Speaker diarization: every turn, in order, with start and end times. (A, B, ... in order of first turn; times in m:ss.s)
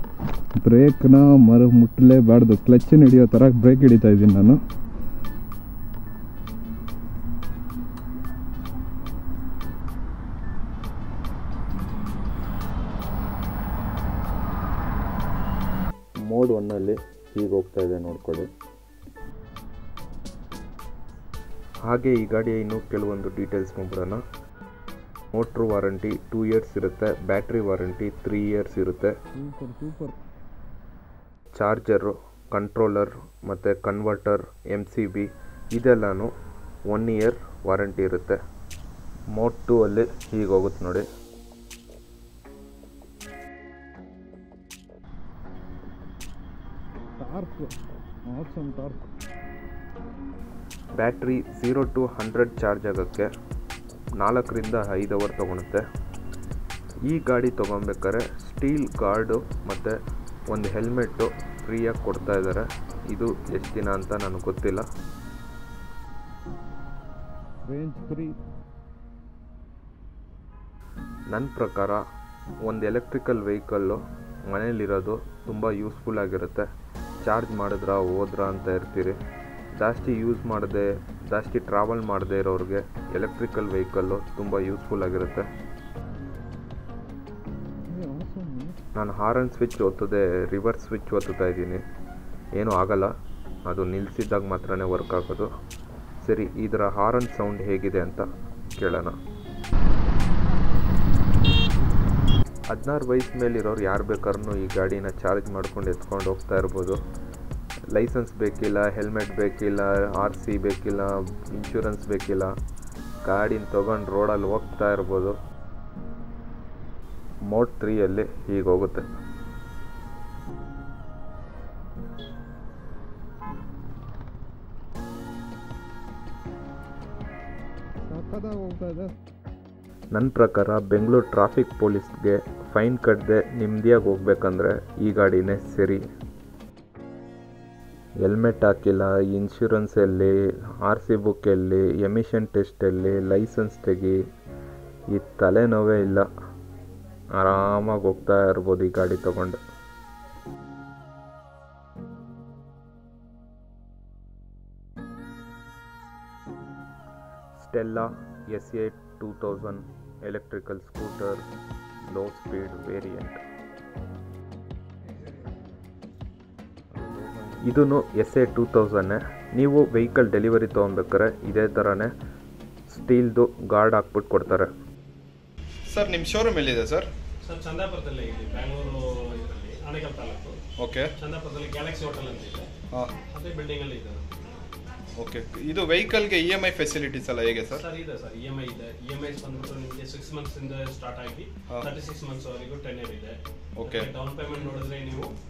0:00.6-0:04.6 A
0:16.2-0:18.5 B
0:21.8-0:24.2 B
0:25.3-0:29.2 B
0:29.3-0:30.1 A
0:31.5-0:36.3 B
0:36.9-0:38.4 B
0:39.3-0:41.0 B
0:47.2-0:47.7 A
0:48.3-0:49.0 A
0:51.0-0:53.3 B
0:54.2-0:55.8 B
0:57.0-1:00.0 B
1:00.5-1:04.8 B
1:07.7-1:08.4 A
1:11.3-1:12.0 B
1:12.6-1:16.6 B
1:17.2-1:19.2 B
1:19.7-1:25.5 B
1:27.9-1:28.8 A
1:28.9-1:31.8 B
1:32.5-1:33.1 B
1:33.6-1:35.5 B
1:36.2-1:39.1 B
1:42.7-1:47.0 B
1:47.9-1:52.5 B
1:53.2-1:55.4 B
1:57.4-1:59.0 B
2:08.1-2:09.1 A
2:10.1-2:16.0 B
2:18.2-2:24.2 B
2:25.1-2:26.3 B
2:27.3-2:29.6 B
2:37.5-2:41.4 B
2:42.0-2:43.4 B
2:47.4-2:52.1 B
2:52.9-2:54.7 B
2:55.9-2:57.0 A
2:56.7-2:57.0 B
2:57.4-3:00.6 C
3:01.2-3:02.7 C
3:03.2-3:04.4 C
3:05.2-3:07.7 A
3:05.2-3:05.8 B
3:07.2-3:07.6 B
3:07.6-3:15.3 C